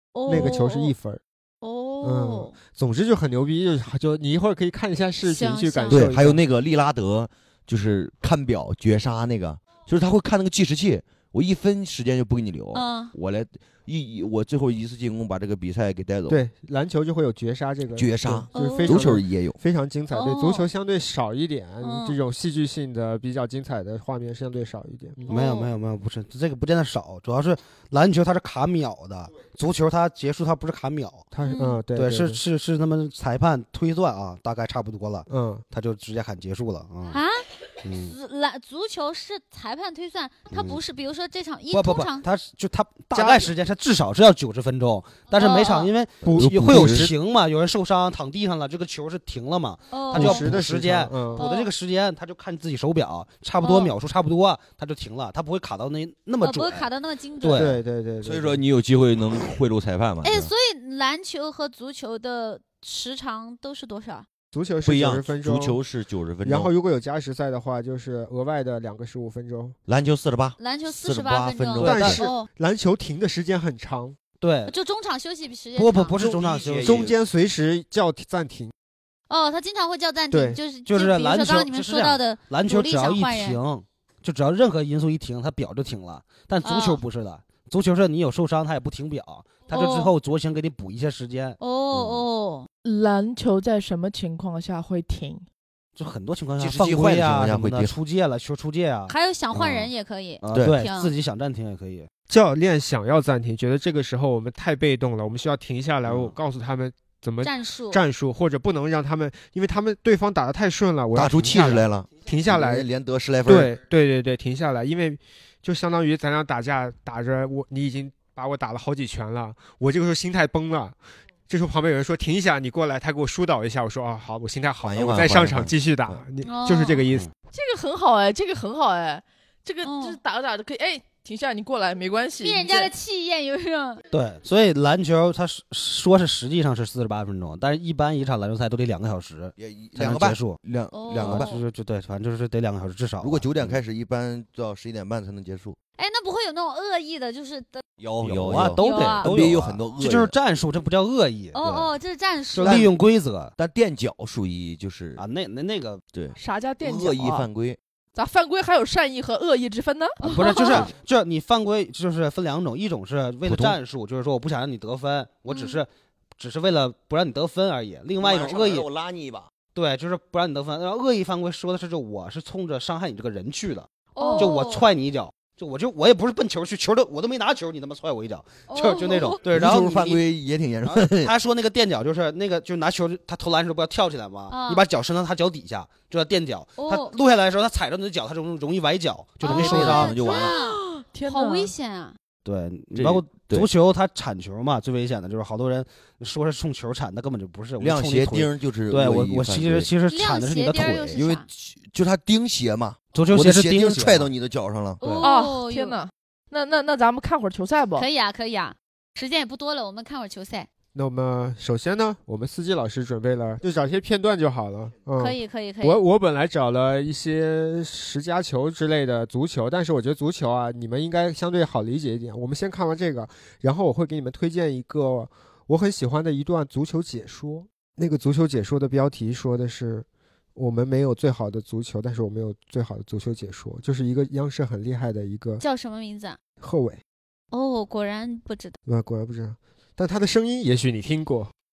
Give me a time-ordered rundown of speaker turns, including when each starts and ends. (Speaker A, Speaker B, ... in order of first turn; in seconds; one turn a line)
Speaker A: 0.1-0.9
Speaker B: 0.3-1.2
Speaker A: 1.6-2.5
Speaker B: 2.0-6.4
Speaker A: 5.2-6.2
Speaker C: 5.9-16.4
Speaker A: 12.7-13.1
Speaker B: 16.3-25.3
Speaker C: 18.0-19.6
Speaker A: 18.5-19.1
Speaker A: 20.1-20.7
Speaker A: 21.8-22.2
Speaker A: 25.2-25.7
Speaker D: 25.3-31.3
Speaker B: 31.3-32.4
Speaker A: 31.4-31.8
Speaker D: 31.9-37.2
Speaker B: 35.3-35.6
Speaker A: 37.1-42.3
Speaker D: 37.8-38.1
Speaker D: 40.5-40.8
Speaker D: 41.7-56.9
Speaker B: 43.1-43.5
Speaker A: 45.3-45.9
Speaker B: 46.2-47.1
Speaker C: 46.3-47.1
Speaker A: 49.9-50.5
Speaker B: 50.1-51.4
Speaker A: 51.4-51.7
Speaker A: 53.6-53.9
Speaker A: 56.4-57.8
Speaker D: 57.4-57.8
Speaker B: 57.5-58.6
Speaker C: 58.2-60.5
Speaker A: 60.2-64.3
Speaker B: 64.5-65.8
Speaker C: 64.8-66.7
Speaker B: 66.4-69.8
Speaker C: 69.9-72.2
Speaker A: 70.6-72.5
Speaker D: 71.8-72.2
Speaker B: 71.8-74.2
Speaker D: 74.4-74.7
Speaker A: 74.7-76.2
Speaker D: 75.8-77.1
Speaker C: 76.2-77.2
Speaker B: 76.8-78.7
Speaker A: 79.3-83.6
Speaker B: 80.3-80.6
Speaker D: 80.9-92.2
Speaker A: 86.6-87.0
Speaker A: 89.7-90.1
Speaker A: 91.6-92.7
Speaker E: 92.8-95.4
Speaker D: 96.0-99.9
Speaker C: 96.6-97.9
Speaker A: 99.1-101.1
Speaker D: 100.4-102.1
Speaker C: 100.5-100.8
Speaker B: 102.3-112.9
Speaker A: 107.4-108.0
Speaker C: 111.2-113.7
Speaker B: 113.5-121.0
Speaker B: 121.5-127.3
Speaker C: 124.8-126.2
Speaker A: 126.5-127.0
Speaker E: 127.5-132.9
Speaker A: 129.8-130.2
Speaker A: 132.4-134.0
Speaker D: 134.1-140.6
Speaker C: 139.6-141.5
Speaker A: 140.9-141.6
Speaker D: 141.2-143.8
Speaker C: 143.2-145.8
Speaker A: 146.0-147.8
Speaker C: 148.0-150.3
Speaker D: 148.2-151.9
Speaker A: 148.8-149.3
Speaker A: 151.5-152.9
Speaker D: 152.5-153.5
Speaker C: 152.6-152.9
Speaker C: 153.6-155.2
Speaker D: 155.2-156.0
Speaker C: 156.1-157.8
Speaker E: 156.4-157.5
Speaker E: 158.2-160.2
Speaker D: 160.2-168.9
Speaker A: 160.2-160.9
Speaker C: 163.4-163.8
Speaker A: 165.5-165.8
Speaker C: 168.2-169.5
Speaker D: 169.8-180.2
Speaker A: 174.2-174.9
Speaker A: 178.7-179.8
Speaker C: 179.5-181.3
Speaker D: 180.8-190.2
Speaker A: 184.5-184.9
Speaker A: 186.8-187.2
Speaker A: 189.4-192.2
Speaker C: 189.4-190.6
Speaker E: 190.2-191.7
Speaker D: 192.4-201.2
Speaker C: 192.9-193.7
Speaker C: 197.8-199.9
Speaker A: 200.1-201.5
Speaker C: 201.2-205.3
Speaker D: 203.1-204.3
Speaker A: 205.0-206.0
Speaker E: 205.2-208.1
Speaker A: 208.0-210.7
Speaker B: 210.9-235.6
Speaker A: 215.2-216.0
Speaker A: 235.6-236.4
Speaker B: 236.6-237.0
Speaker A: 237.5-238.8
Speaker B: 238.9-241.5